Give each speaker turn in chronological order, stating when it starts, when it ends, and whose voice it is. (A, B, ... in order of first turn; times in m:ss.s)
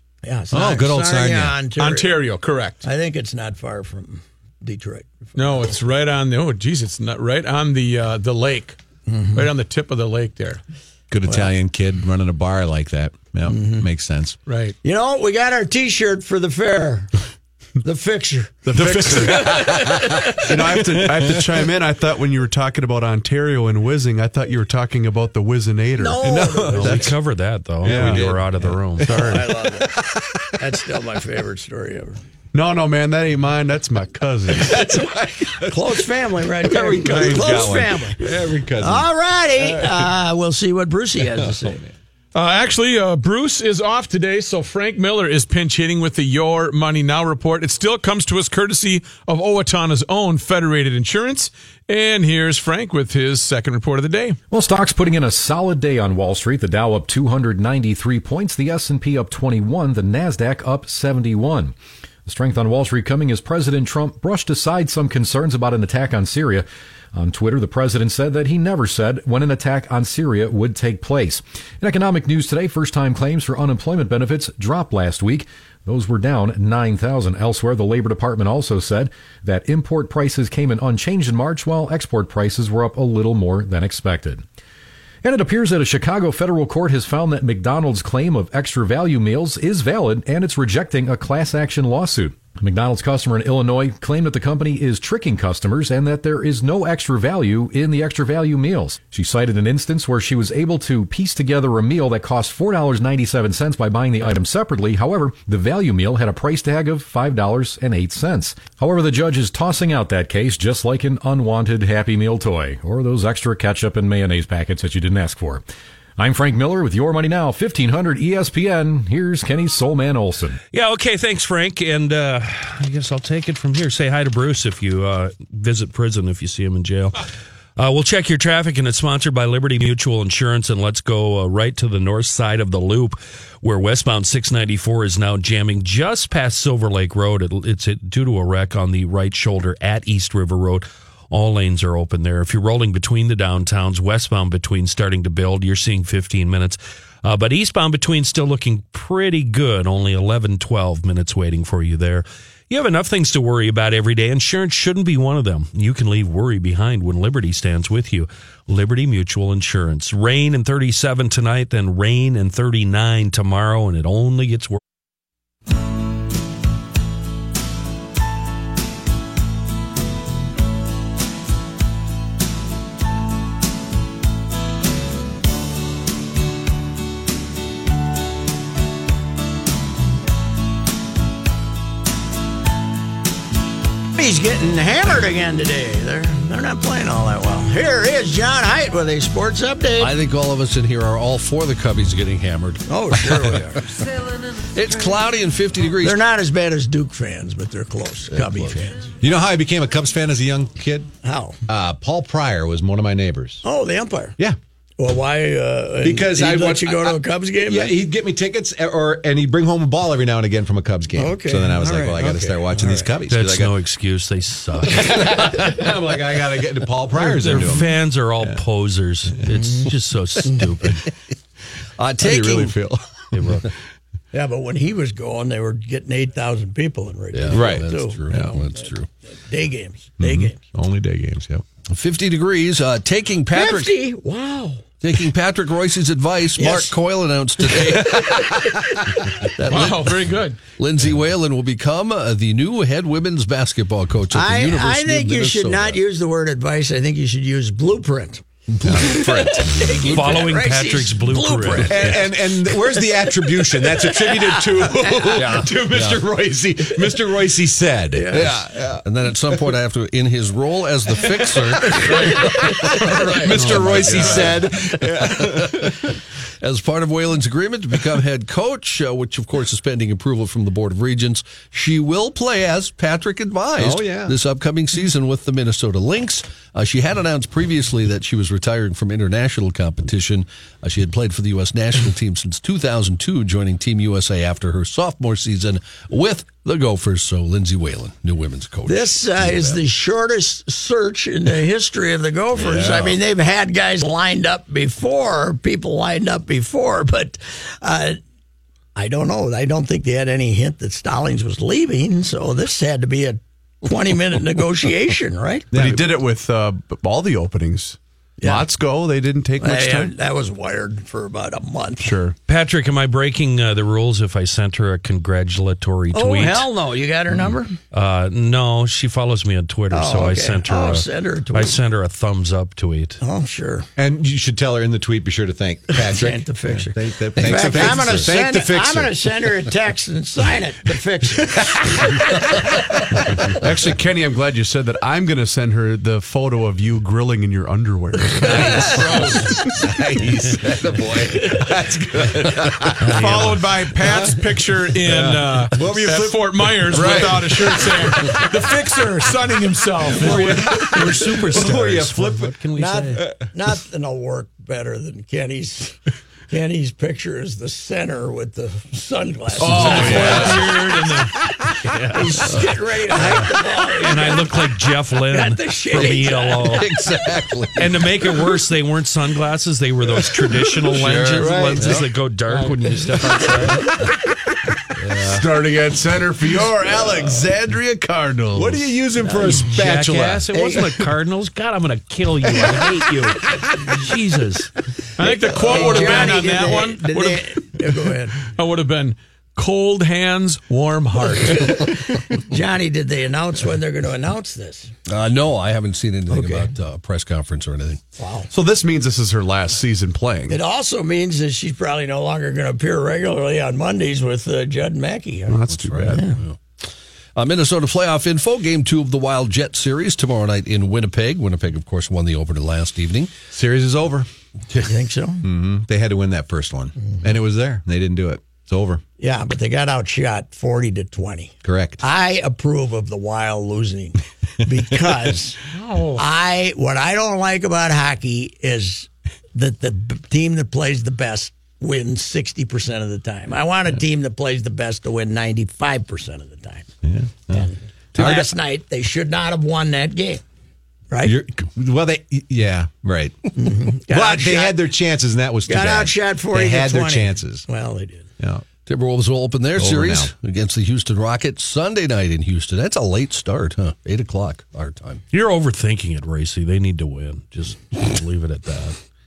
0:00.2-0:02.2 A
0:00.5-0:01.6 B
0:01.8-0:02.8 C
0:02.8-0:05.6 A
0:05.3-0:08.8 C
0:09.1-0:09.4 A
0:09.3-0:10.6 C
0:11.1-0:14.4 B
0:13.4-0:13.8 A
0:14.4-0:14.8 C
0:14.8-0:17.1 A
0:17.8-0:20.4 A
0:18.6-0:26.8 D
0:18.7-0:21.4 B
0:26.0-0:27.0 A
0:26.2-0:27.2 B
0:26.7-0:29.4 E
0:27.8-0:30.6 B
0:27.8-0:28.3 D
0:29.0-0:29.9 A
0:30.5-0:32.2 A
0:32.5-0:34.9 D
0:34.5-0:36.0 B
0:35.7-0:38.2 A
0:36.6-0:40.1 B
0:38.8-0:41.8 A
0:41.4-0:41.9 B
0:42.3-0:54.4 C
0:54.5-1:01.7 F
1:02.2-1:24.4 F
1:25.2-1:55.6 F
1:56.2-2:00.6 F
2:00.7-2:07.2 E
2:07.8-2:44.8 E
3:04.1-3:10.1 A
3:10.0-3:13.5 G
3:12.9-3:14.0 A
3:14.7-3:16.2 G
3:16.0-3:19.1 A
3:18.3-3:18.8 G
3:19.2-3:21.1 B
3:21.2-3:21.6 A
3:21.7-3:23.6 B
3:23.6-3:24.4 A
3:25.0-3:28.0 A
3:26.0-3:33.7 B
3:31.1-3:33.1 A
3:33.3-3:35.8 E
3:34.8-3:38.6 B
3:37.2-3:41.0 E
3:42.0-3:42.8 G
3:42.2-3:43.0 B
3:43.3-3:43.7 E
3:44.3-3:50.6 A
3:47.3-3:49.1 G
3:47.5-3:48.6 B
3:50.2-3:51.6 B
3:51.9-3:53.9 G
3:53.5-3:54.8 A
3:55.0-3:58.5 G
3:56.6-3:56.9 A
3:58.0-3:59.2 A
3:59.6-4:06.0 G
3:59.7-4:00.6 C
4:04.3-4:15.6 A
4:08.8-4:10.4 B
4:10.0-4:12.0 E
4:11.8-4:19.0 B
4:15.4-4:16.2 G
4:18.1-4:18.5 A
4:18.4-4:25.9 G
4:21.9-4:26.0 B
4:22.0-4:22.4 C
4:22.1-4:23.6 A
4:26.6-4:49.8 G
4:33.8-4:34.4 B
4:48.8-4:58.2 A
4:52.6-4:53.1 B
4:59.0-5:05.9 A
5:05.7-5:10.1 D
5:05.7-5:06.0 B
5:08.4-5:08.6 A
5:09.6-5:12.1 A
5:12.0-5:12.4 D
5:12.5-5:16.7 E
5:16.1-5:17.8 A
5:17.9-5:23.2 E
5:19.9-5:21.8 A
5:23.2-5:23.9 A
5:24.0-5:29.2 B
5:25.9-5:32.2 A
5:33.5-5:39.5 D
5:38.4-5:43.2 B
5:39.0-5:39.4 C
5:43.0-5:43.6 E
5:43.1-5:50.8 C
5:44.0-5:44.4 B
5:45.0-5:48.8 B
5:46.9-5:47.4 D
5:50.1-5:52.6 B
5:50.2-5:53.2 E
5:52.7-5:56.0 A
5:56.5-6:00.7 A
5:59.6-6:00.8 D
5:59.6-6:02.6 E
5:59.9-6:00.5 B
6:02.1-6:06.8 A
6:03.2-6:06.9 E
6:06.7-6:07.9 G
6:07.8-6:13.9 E
6:10.9-6:12.0 G
6:11.3-6:12.1 B
6:15.1-6:15.5 B
6:15.2-6:19.0 D
6:16.8-6:17.6 B
6:18.5-6:20.8 B
6:19.2-6:19.6 A
6:19.4-6:24.7 E
6:25.2-6:27.5 C
6:25.2-6:28.4 A
6:28.5-6:31.8 C
6:31.4-6:34.9 A
6:35.1-6:38.0 G
6:36.3-6:36.7 A
6:38.2-6:38.5 A
6:38.5-6:40.6 D
6:40.5-6:46.4 A
6:45.5-6:46.3 D
6:45.7-6:46.6 G
6:47.4-6:53.4 G
6:53.5-6:54.3 B
6:54.7-6:55.4 A
6:55.4-6:59.0 B
6:59.2-7:16.9 A
7:01.6-7:02.0 B
7:17.0-7:18.5 B
7:17.5-7:20.4 A
7:21.1-7:21.4 A
7:21.2-7:27.6 B
7:23.5-7:24.8 A
7:25.7-7:28.3 A
7:28.4-7:28.6 B
7:28.8-7:35.2 G
7:29.8-7:30.3 B
7:35.3-7:39.0 E